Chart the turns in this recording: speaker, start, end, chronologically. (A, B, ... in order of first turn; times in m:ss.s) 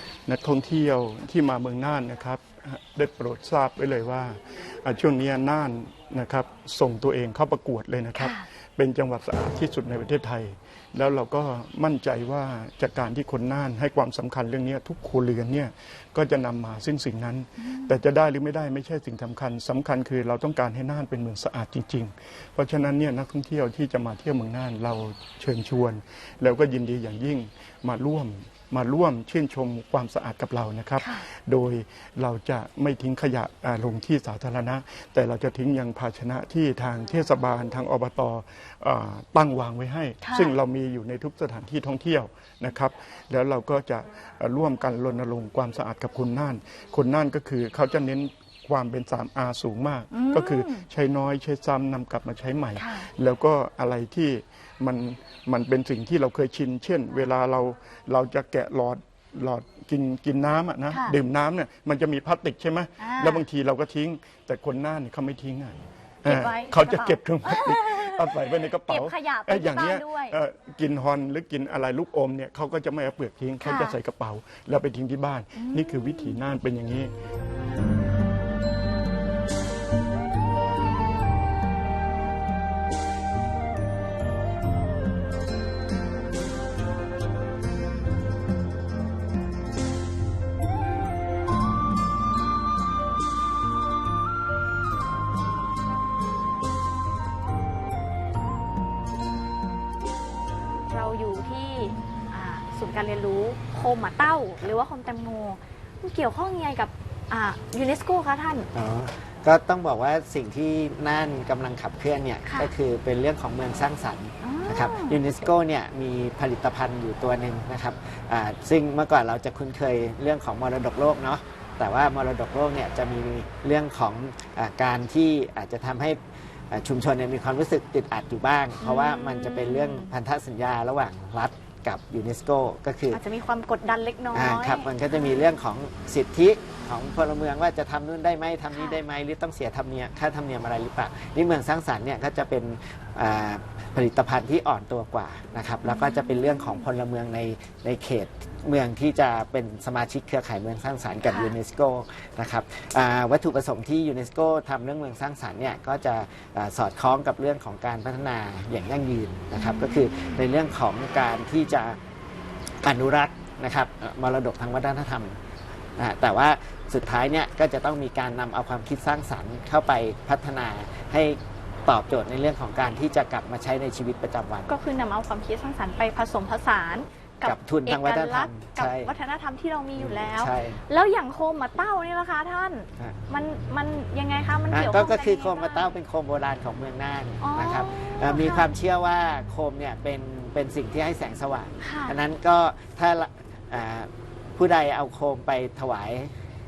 0:00.3-1:17.1 A
0:08.2-0:08.4 B
0:17.6-0:18.0 B
0:31.0-0:31.3 B
0:40.2-0:40.5 B
0:50.1-0:50.8 B
0:52.8-0:53.1 B
1:00.9-1:01.2 B
1:03.0-1:03.4 B
1:06.2-1:10.4 B
1:13.6-1:14.0 B
1:15.6-1:16.4 B
1:40.9-1:48.7 B
1:48.7-2:06.2 C
1:52.4-1:52.7 B
1:54.4-1:55.2 B
2:06.7-2:13.2 C
2:08.8-2:10.1 B
2:13.1-2:15.6 B
2:14.3-2:42.0 C
2:18.7-2:19.0 B
2:25.8-2:26.8 B
2:31.3-2:31.6 B
2:39.6-2:40.4 B
2:42.8-2:45.4 C
2:46.0-2:54.7 C
2:54.7-3:05.9 B
2:57.4-2:59.1 C
3:00.0-3:00.8 C
3:04.7-3:16.3 C
3:07.4-3:08.7 B
3:11.8-3:12.2 B